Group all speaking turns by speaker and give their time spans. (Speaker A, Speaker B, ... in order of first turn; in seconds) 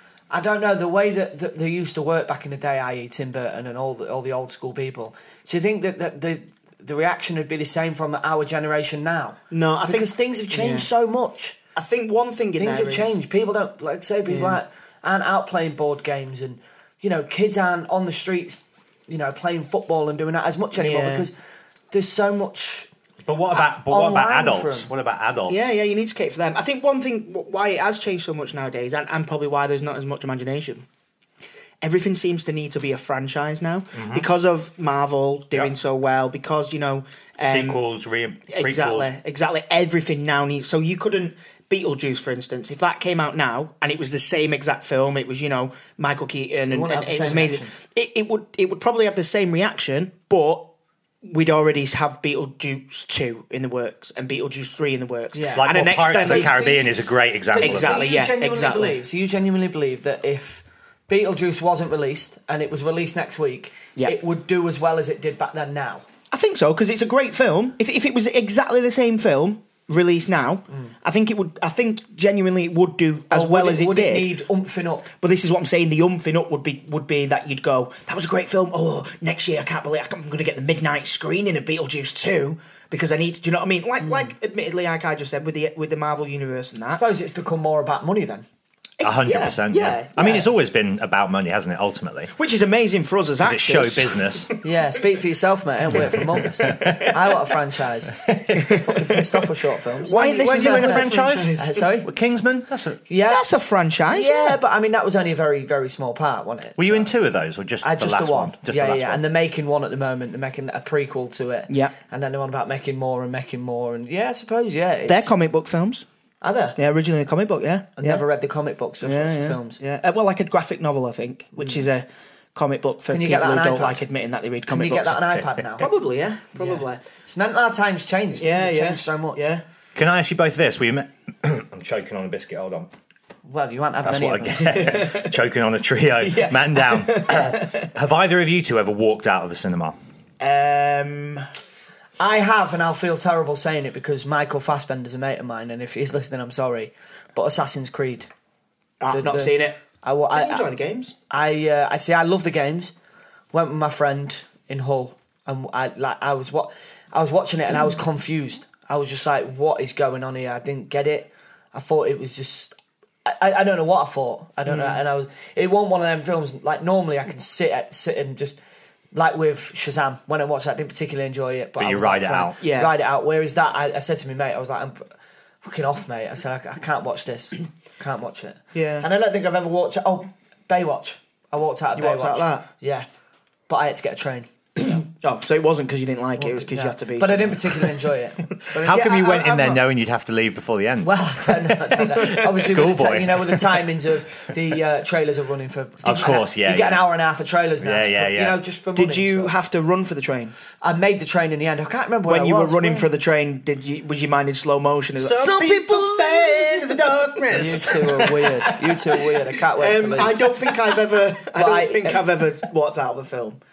Speaker A: 0.3-11.6, 12.6-21.4, 21.9-22.9, 23.6-24.9, 46.7-47.7, 55.3-66.1, 73.3-75.1, 84.0-84.3, 86.9-88.5, 94.6-102.1, 103.1-103.4, 104.1-107.1, 107.8-115.3, 116.4-116.8, 118.0-119.8, 121.6-121.9, 123.1-124.0, 124.7-125.9, 126.6-129.5, 133.4-135.0, 142.2-148.3, 149.1-150.7, 151.3-152.9, 153.5-168.6, 169.1-183.1, 183.7-185.1, 186.4-189.0, 191.0-199.5, 200.8-203.1, 207.5-210.5, 211.4-212.3
Speaker B: 9.5-10.9, 11.8-13.2, 14.3-14.6, 20.7-21.3, 25.5-30.9, 31.8-37.8, 38.5-50.7, 51.2-56.8, 57.6-59.0, 66.3-74.4, 75.2-87.0, 89.0-90.5, 92.4-94.7, 96.7-97.1, 98.7-99.3, 100.0-101.8, 103.3-104.6, 111.7-111.9, 115.1-116.1, 116.8-118.2, 119.0-125.2, 125.8-127.0, 128.4-129.6, 134.8-135.3, 136.2-137.9, 140.4-141.5, 149.0-149.8, 150.3-151.1, 164.7-165.0, 172.6-172.9, 178.7-179.1, 182.0-182.7, 185.1-187.9, 188.6-189.8, 199.0-200.6, 202.3-213.6
Speaker C: 23.2-25.7, 34.0-34.3, 37.4-39.1, 55.6-58.0, 89.0-92.3, 93.4-94.5, 96.0-97.1, 98.2-98.7, 100.3-103.0, 106.8-109.2, 130.0-132.9, 134.0-140.0, 171.8-172.6, 188.8-193.8, 196.0-197.0, 197.8-198.6, 205.2-208.3